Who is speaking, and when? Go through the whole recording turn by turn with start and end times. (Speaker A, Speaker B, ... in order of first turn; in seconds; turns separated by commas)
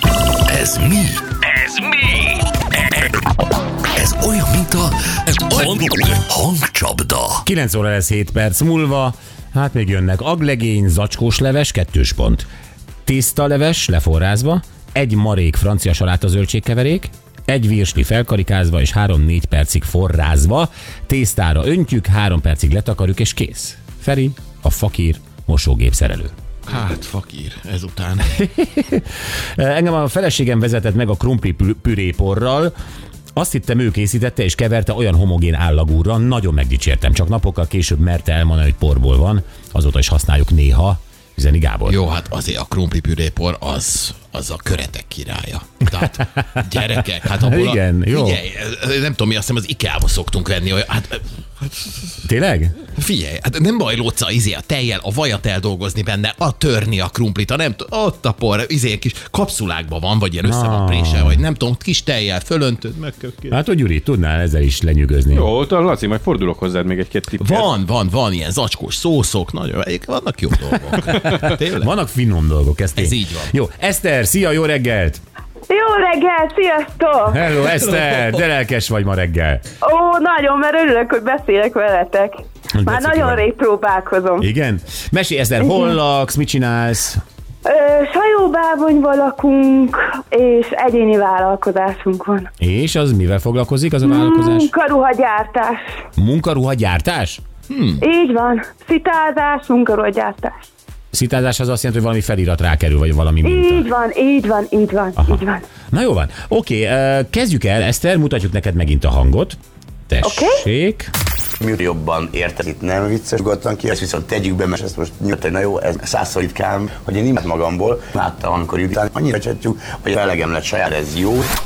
Speaker A: 0.5-1.3, Speaker A: 3.9-7.4, Speaker B: 7.4-12.5, Speaker B: 13.1-26.3, Speaker C: 26.7-28.4, Speaker B: 28.4-29.1, Speaker B: 29.6-32.7, Speaker B: 33.4-42.0, Speaker C: 41.9-52.1, Speaker B: 47.4-48.4, Speaker B: 52.2-52.8, Speaker C: 53.0-63.6, Speaker B: 60.5-61.4, Speaker B: 63.5-65.5, Speaker D: 65.3-67.5, Speaker C: 67.4-71.9, Speaker B: 71.2-75.2, Speaker C: 73.0-73.5, Speaker E: 75.7-77.6, Speaker B: 77.3-79.6, Speaker E: 79.8-84.5, Speaker B: 82.8-83.4, Speaker B: 84.4-87.2, Speaker E: 87.7-92.5, Speaker B: 92.6-94.7, Speaker E: 94.0-95.8, Speaker B: 96.2-97.4, Speaker C: 97.7-98.0, Speaker E: 98.0-100.7, Speaker B: 101.1-103.9, Speaker E: 103.4-105.6, Speaker B: 105.2-111.1, Speaker E: 110.2-110.6, Speaker F: 111.6-121.5